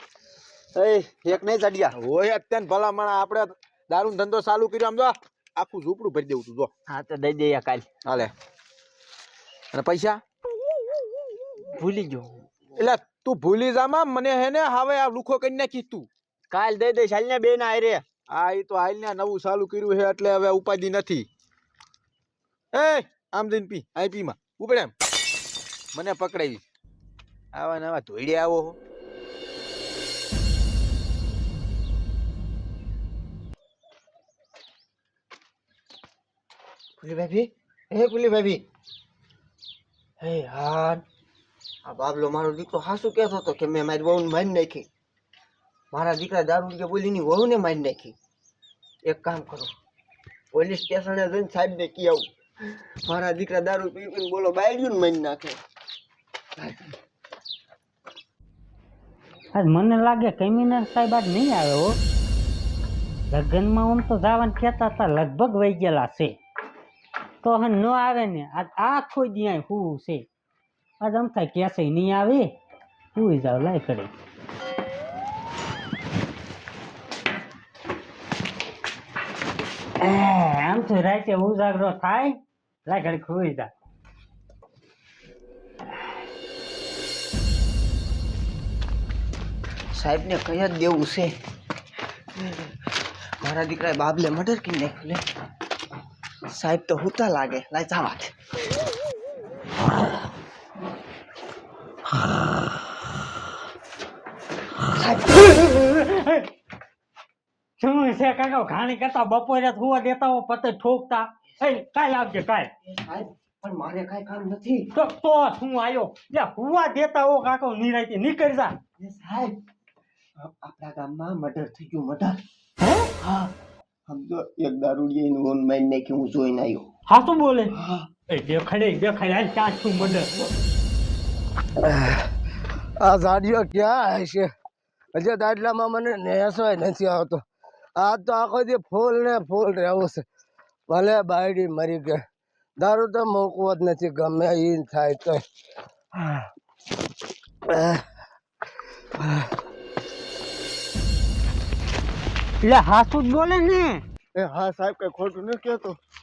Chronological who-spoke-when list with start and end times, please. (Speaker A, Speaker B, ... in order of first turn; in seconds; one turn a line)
Speaker A: 0.8-1.9
Speaker B: 1.9-6.7
Speaker A: 6.9-7.8
Speaker B: 8.0-8.3
Speaker B: 9.7-10.2
Speaker A: 11.7-12.4
Speaker B: 12.8-16.1
Speaker A: 16.5-18.0
Speaker B: 18.3-21.3
Speaker B: 22.7-24.9
Speaker B: 25.9-26.6
Speaker B: 27.5-28.8
Speaker A: 37.0-38.6
Speaker A: 40.2-41.0
Speaker A: 41.8-44.9
Speaker A: 45.9-48.1
Speaker A: 49.1-49.7
Speaker A: 50.5-52.2
Speaker A: 53.1-55.6
Speaker A: 56.6-57.0
Speaker C: 59.5-62.0
Speaker C: 63.3-66.4
Speaker C: 67.4-70.2
Speaker C: 71.0-72.5
Speaker C: 73.1-74.1
Speaker C: 80.0-83.7
Speaker A: 89.9-91.3
Speaker A: 92.4-92.7
Speaker A: 93.4-95.2
Speaker A: 96.5-98.3
Speaker C: 105.4-106.5
Speaker C: 107.8-112.7
Speaker A: 112.9-114.9
Speaker C: 114.9-118.8
Speaker A: 119.0-119.5
Speaker A: 120.4-122.4
Speaker A: 123.2-123.5
Speaker A: 124.1-126.8
Speaker C: 127.1-127.8
Speaker A: 127.8-128.1
Speaker C: 128.3-130.3
Speaker D: 131.8-132.2
Speaker D: 133.0-134.5
Speaker D: 135.2-137.4
Speaker D: 138.0-140.2
Speaker D: 140.9-142.2
Speaker D: 142.8-145.4
Speaker D: 146.1-146.4
Speaker D: 147.7-148.0
Speaker C: 152.6-154.0
Speaker A: 154.3-156.0